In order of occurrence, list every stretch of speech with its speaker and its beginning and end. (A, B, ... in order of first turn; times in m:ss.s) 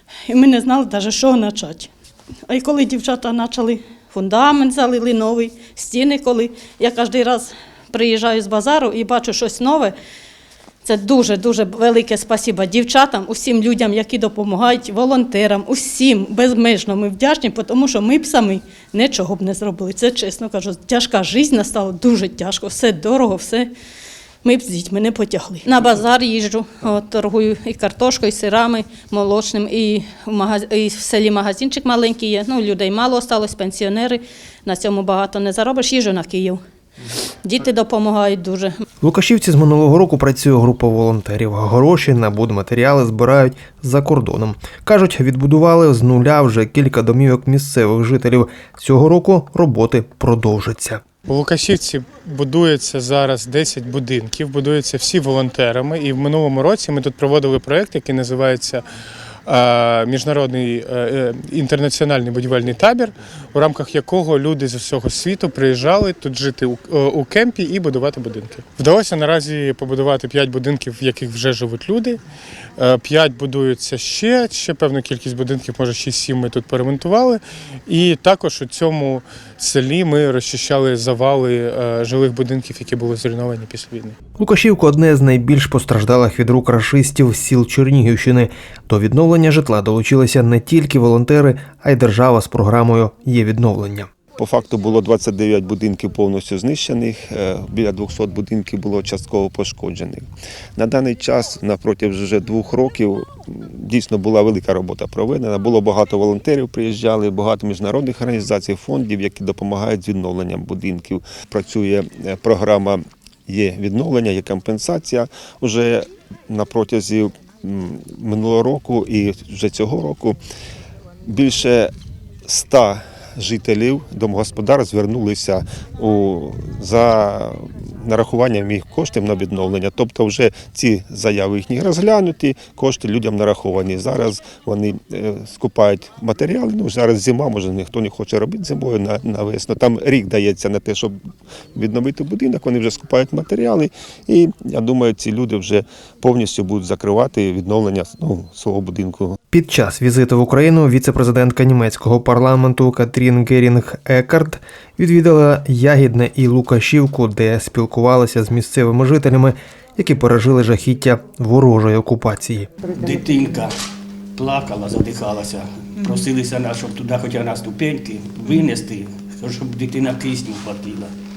0:00.3-0:01.9 A
0:02.5-0:09.9 A
0:10.8-0:23.7 A
0:24.4-0:36.6 A
0:37.4-0:38.7 A
0:39.0-0:51.0 B
0:51.3-0:58.8 C
0:59.5-1:12.2 C
1:12.8-1:24.2 C
1:24.4-1:34.1 B
1:34.4-2:00.4 D
2:01.2-2:01.9 D
2:02.4-2:21.2 D
2:21.7-2:29.4 D
2:29.5-2:42.7 B
2:42.8-2:43.7 E
2:44.4-2:51.1 E